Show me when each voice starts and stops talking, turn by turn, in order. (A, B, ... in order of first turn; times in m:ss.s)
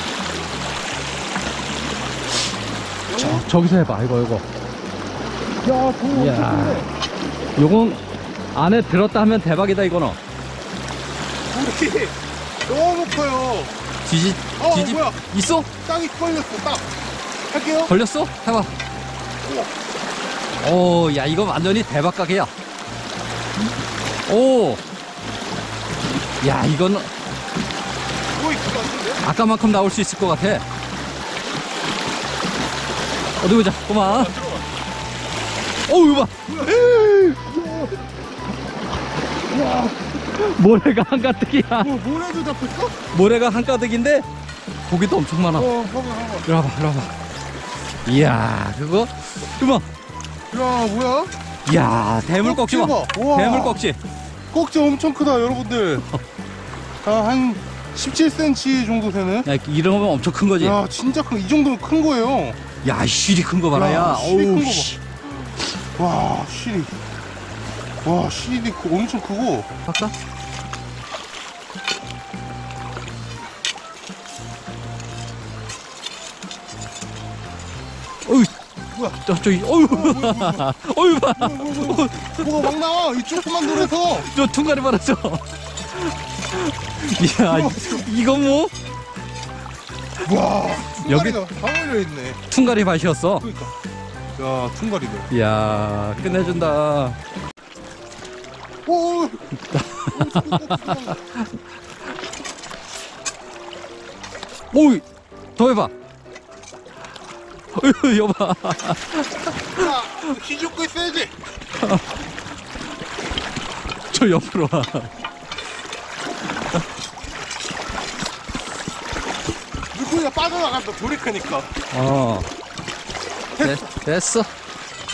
0:03.1-0:03.4 A
0:03.1-0:04.4 B
0:05.6-0:06.9 A
0:06.1-0:06.9 B
0:07.6-0:08.0 B
0:08.5-0:10.2 B
0:11.5-0:13.7 A
0:14.0-0:15.7 B
0:14.6-0:15.2 A
0:15.8-0:16.9 A
0:17.5-0:17.9 A
0:17.9-0:18.7 B
0:20.6-0:22.5 B
0:24.2-0:24.8 B
0:26.4-0:27.1 B
0:28.3-0:29.2 A
0:29.2-0:30.6 B
0:33.4-0:34.4 B
0:34.0-0:34.7 A
0:35.9-0:37.3 B
0:36.5-0:38.0 A
0:39.6-0:39.9 A
0:39.8-0:41.9 B
0:41.8-0:43.0 A
0:43.1-0:44.3 B
0:44.8-0:45.7 B
0:45.5-0:46.5 A
0:46.4-0:47.1 B
0:48.0-0:49.9 B
0:50.5-0:51.3 A
0:51.6-0:54.0 B
0:52.4-0:53.8 A
0:54.5-0:56.0 A
0:57.0-0:59.5 A
0:59.4-1:00.8 B
1:00.6-1:02.6 A
1:02.8-1:05.0 B
1:03.7-1:04.9 A
1:06.0-1:07.0 A
1:08.0-1:09.7 A
1:09.8-1:10.1 B
1:18.2-1:18.5 B
1:18.9-1:20.7 A
1:19.2-1:22.7 B
1:21.3-1:24.3 A
1:23.3-1:28.7 B
1:27.4-1:28.1 A
1:30.2-1:32.4 A
1:31.0-1:31.4 B
1:32.5-1:33.4 B
1:33.4-1:33.7 A
1:34.3-1:35.3 A
1:35.3-1:37.2 B
1:38.8-1:39.5 A
1:39.7-1:41.4 B
1:40.0-1:41.2 A
1:44.7-1:45.0 B
1:45.6-1:45.9 B
1:47.7-1:50.3 B
1:49.7-1:51.3 A
1:54.1-1:55.1 B
1:59.9-2:01.7 A
2:01.9-2:02.5 B
2:03.6-2:03.8 A
2:03.6-2:04.5 B